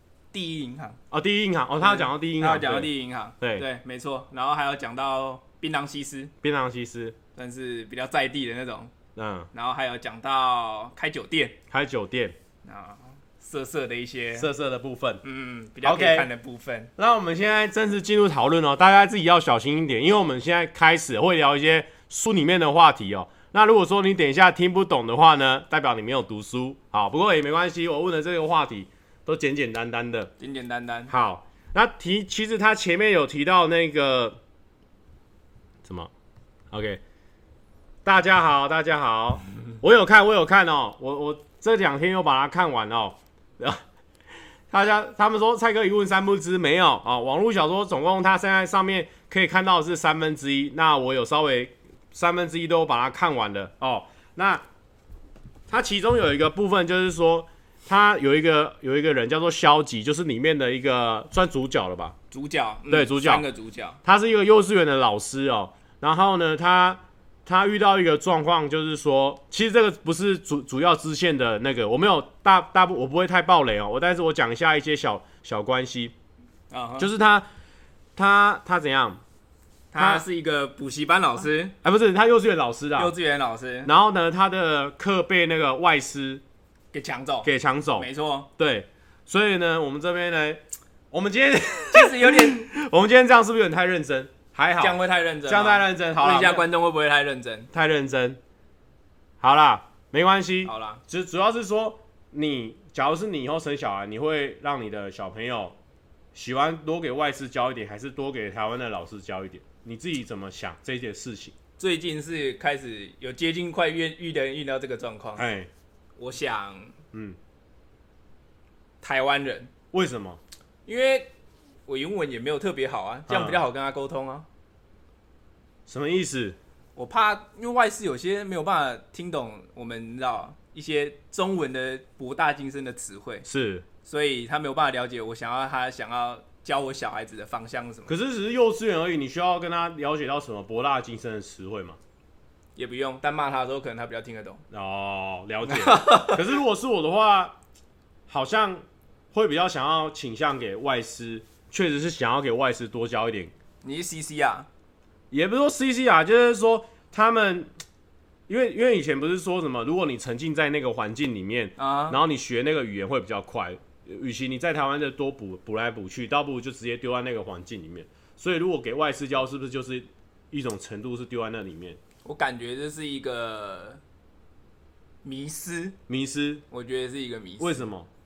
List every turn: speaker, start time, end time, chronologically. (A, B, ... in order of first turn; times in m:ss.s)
0:00.3-0:01.0 A
0:01.1-0:02.9 B
0:01.8-0:06.3 A
0:06.4-0:07.2 B
0:07.4-0:08.9 A
0:09.2-0:09.5 B
0:09.5-0:11.6 A
0:11.7-0:12.4 B
0:12.6-0:14.5 A
0:14.4-0:15.2 B
0:15.2-0:16.9 A
0:15.8-0:16.3 B
0:17.0-0:30.3 B
0:30.4-0:31.1 A
0:31.1-0:34.4 B
0:35.8-0:36.1 B
0:36.7-0:37.0 B
0:38.0-0:43.8 B
0:44.7-0:54.6 B
0:55.7-1:02.2 B
1:02.3-1:04.0 A
1:02.9-1:03.4 B
1:04.0-1:16.1 B
1:16.7-1:17.1 A
1:17.0-1:17.5 B
1:18.2-1:19.2 B
1:19.9-1:21.8 A
1:20.0-1:20.2 B
1:21.8-1:23.1 B
1:23.0-1:23.9 A
1:23.8-1:26.4 B
1:26.9-1:28.5 A
1:27.4-1:36.6 B
1:31.9-1:32.7 A
1:34.8-1:37.7 A
1:37.7-1:38.4 B
1:39.4-1:45.7 B
1:40.6-1:41.0 A
1:46.3-1:51.5 B
1:51.8-1:55.4 A
1:55.4-1:55.7 B
1:56.2-1:56.9 A
1:59.0-1:59.7 A
1:59.9-2:00.4 B
2:00.9-2:01.3 A
2:01.9-2:04.5 A
2:03.3-2:03.6 B
2:05.9-2:06.6 B
2:07.0-2:13.5 A
2:13.4-2:13.8 B
2:14.0-2:18.1 A
2:18.1-2:22.0 B
2:22.8-2:24.6 A
2:24.7-2:27.6 B
2:25.7-2:26.5 A
2:28.3-2:33.5 B
2:33.8-2:34.7 A
2:35.3-2:37.7 B
2:38.5-2:52.0 B
2:41.8-2:42.2 A
2:52.2-2:54.0 A
2:55.2-2:56.0 A
2:56.1-2:56.6 B
2:56.7-2:57.9 A
2:57.6-2:58.1 B